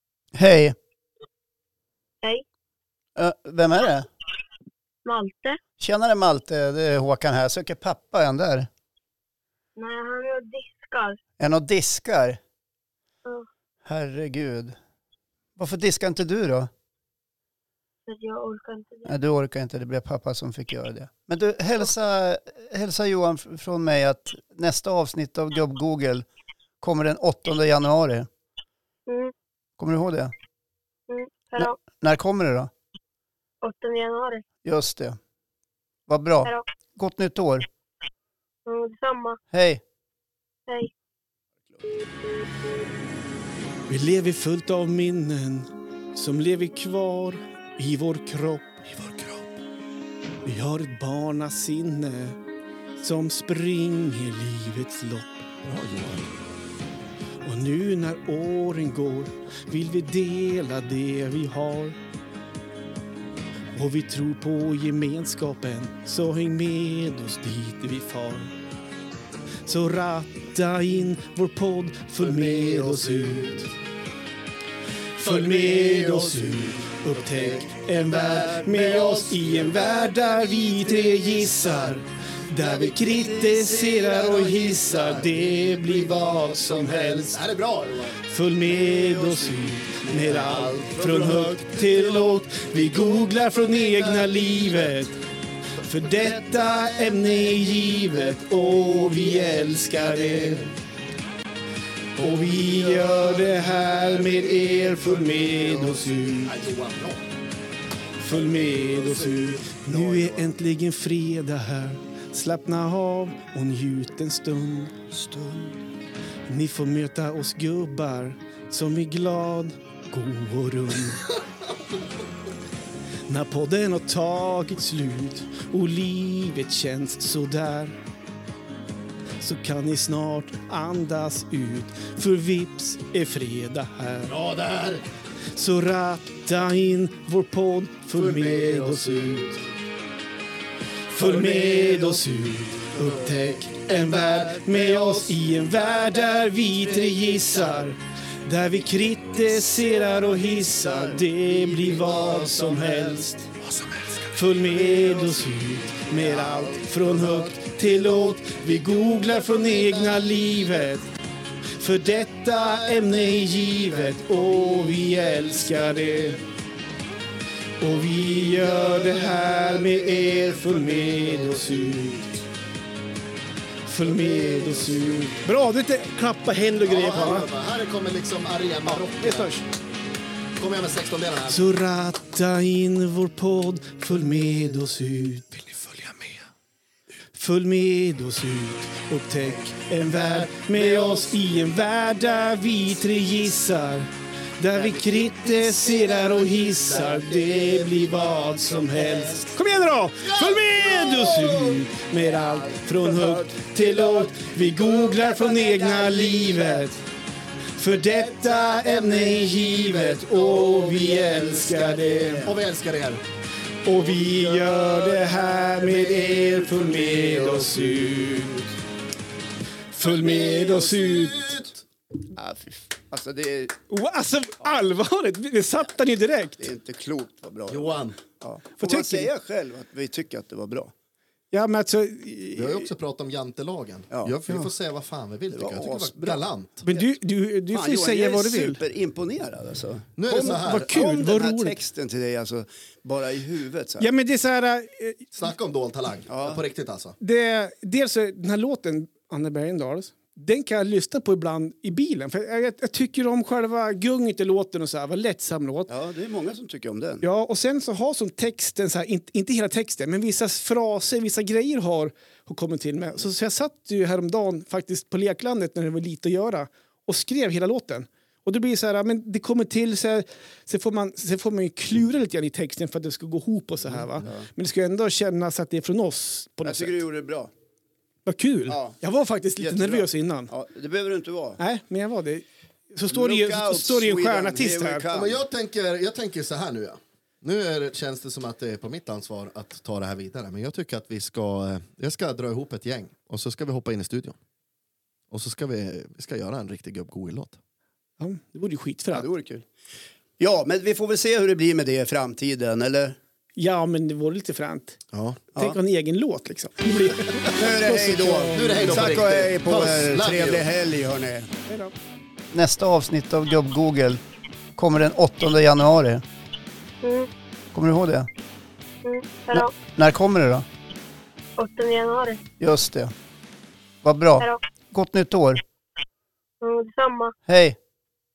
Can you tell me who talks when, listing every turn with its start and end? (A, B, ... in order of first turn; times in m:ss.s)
0:00.4-0:00.8 A
0:03.2-0:04.1 A
0:05.0-0:05.6 B
0:05.8-0:08.7 A
0:09.8-0:11.2 B
0:11.4-0:12.4 A
0:13.8-0:14.8 A
0:15.6-0:16.7 A
0:18.1-0:19.1 B
0:19.1-0:26.3 A
0:26.8-0:28.3 A
0:29.1-0:29.3 B
0:29.8-0:30.3 A
0:31.1-0:31.8 B
0:31.6-0:32.7 A
0:33.6-0:34.4 B
0:34.6-0:35.2 A
0:36.1-0:37.7 A
0:38.7-0:39.4 B
0:39.5-0:39.8 A
0:43.9-0:48.9 C
0:50.4-0:52.4 C
0:53.0-0:55.5 C
0:55.6-0:56.3 D
0:57.4-1:02.0 C
1:03.7-1:08.5 C
1:09.6-1:13.7 C
1:15.2-1:27.4 C
1:26.7-1:28.2 D
1:28.2-1:35.2 C
1:35.8-1:40.8 C
1:42.2-1:46.6 C
1:46.4-1:47.2 D
1:48.2-1:55.0 C
1:56.5-2:01.3 C
2:03.3-2:07.9 C
2:09.4-2:14.4 C
2:14.3-2:15.0 D
2:15.5-2:19.7 C
2:21.1-2:33.5 C
2:34.3-2:41.1 C
2:41.8-2:46.4 C
2:47.8-2:52.3 C
2:53.9-2:57.5 C
2:56.8-2:59.5 D
2:58.9-2:59.6 C
3:00.6-3:01.6 D
3:01.5-3:06.1 C
3:07.3-3:14.1 C
3:14.6-3:27.0 C
3:27.8-3:32.5 C
3:32.4-3:33.2 D
3:33.8-3:38.7 C
3:39.9-3:41.6 C
3:40.1-3:41.8 D
3:42.4-3:43.8 E
3:43.9-3:46.7 C
3:46.6-3:50.9 E
3:47.7-3:48.2 D
3:48.8-3:49.3 C
3:51.5-3:52.9 C
3:52.6-3:56.9 D
3:54.1-3:54.7 E
3:55.5-3:56.4 E
3:56.8-3:58.8 C
3:57.7-4:04.1 E
4:00.2-4:01.0 D
4:00.3-4:01.8 C
4:04.0-4:05.3 C
4:05.4-4:07.2 D
4:06.3-4:06.6 E
4:07.2-4:15.9 C
4:15.9-4:17.2 E
4:17.2-4:37.0 C
4:33.9-4:34.5 E
4:36.6-4:37.5 E
4:38.3-4:40.5 C
4:39.6-4:41.6 E
4:41.6-4:45.0 C
4:43.1-4:45.4 E
4:45.1-4:54.4 D
4:55.3-4:57.6 D
4:58.2-4:59.3 C
4:59.2-4:59.6 E
5:00.4-5:03.2 E
5:03.6-5:05.0 C
5:05.1-5:05.4 D
5:05.5-5:09.1 C
5:07.6-5:11.5 E
5:08.5-5:10.7 D
5:11.7-5:11.9 C
5:12.5-5:14.2 A
5:14.8-5:16.2 A
5:17.0-5:17.3 B
5:17.7-5:18.3 A
5:19.0-5:19.8 B
5:19.5-5:20.6 A
5:21.6-5:22.4 B
5:22.6-5:23.1 A
5:24.0-5:25.6 A
5:26.6-5:27.3 B
5:27.5-5:27.8 A